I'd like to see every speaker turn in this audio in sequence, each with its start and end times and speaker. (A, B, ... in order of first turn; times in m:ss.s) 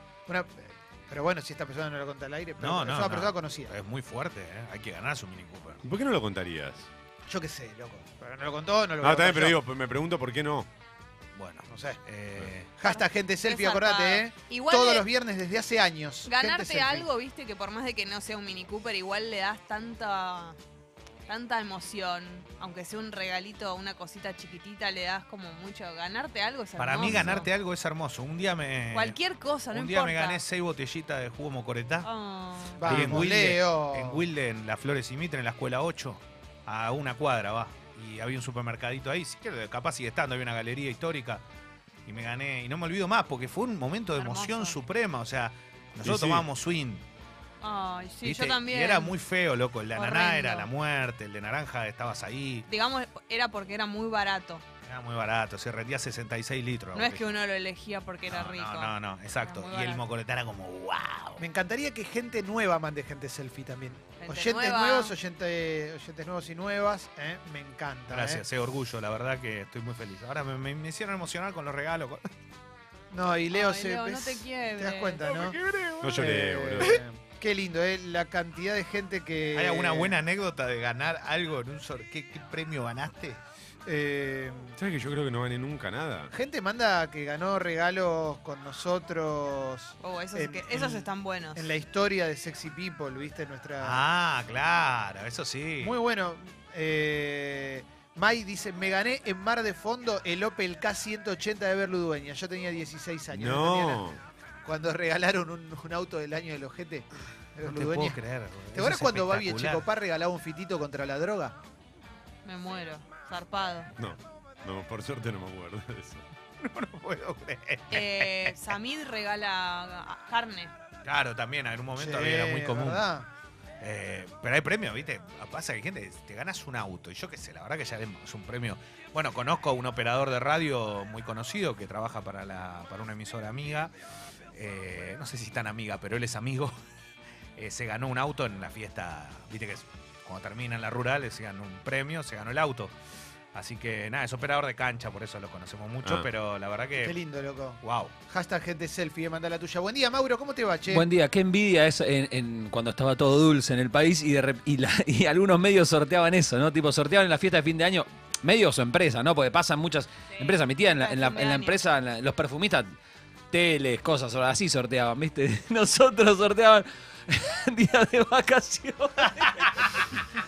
0:00.3-0:03.7 A
0:02.6-0:05.8 B
0:05.8-0:06.9 C
0:07.3-0:09.6 A
0:09.0-0:10.7 C
0:11.4-0:12.7 B
0:11.7-0:12.0 A
0:12.8-0:17.1 A
0:12.8-0:15.1 D
0:16.2-0:20.6 D
0:21.3-0:27.5 D
0:26.8-0:29.2 B
0:27.1-0:27.4 C
0:28.9-0:30.4 D
0:29.7-0:32.1 B
0:32.0-0:33.2 D
0:32.8-0:34.3 A
0:32.8-0:41.4 B
0:42.1-0:47.0 B
0:44.2-0:44.8 D
0:46.0-0:46.5 C
0:47.6-0:49.2 D
0:48.2-0:52.7 B
0:49.9-0:50.7 D
0:52.7-0:54.6 D
0:54.8-0:57.3 B
0:56.9-1:00.0 D
0:58.3-1:01.4 B
1:01.4-1:08.4 A
1:04.2-1:05.1 D
1:08.1-1:12.3 B
1:13.1-1:15.6 A
1:13.5-1:15.2 D
1:15.2-1:17.0 B
1:16.0-1:17.0 C
1:16.2-1:20.2 A
1:19.5-1:23.4 B
1:23.8-1:24.8 A
1:24.8-1:26.3 C
1:26.3-1:34.0 A
1:30.0-1:31.7 D
1:33.8-1:36.0 B
1:35.8-1:44.1 A
1:43.3-1:44.2 C
1:44.6-1:48.2 A
1:47.6-1:49.8 B
1:48.7-1:51.6 A
1:52.4-1:53.9 D
1:54.0-1:56.2 C
1:56.6-1:58.8 B
1:57.9-2:00.7 D
2:01.0-2:03.1 B
2:02.0-2:03.3 A
2:03.8-2:13.9 B
2:14.5-2:16.8 B
2:17.6-2:23.0 B
2:23.5-2:27.2 B
2:26.0-2:26.3 C
2:27.0-2:31.1 A
2:27.8-2:28.1 B
2:30.8-2:42.9 E
2:40.3-2:41.8 D
2:43.5-2:50.2 E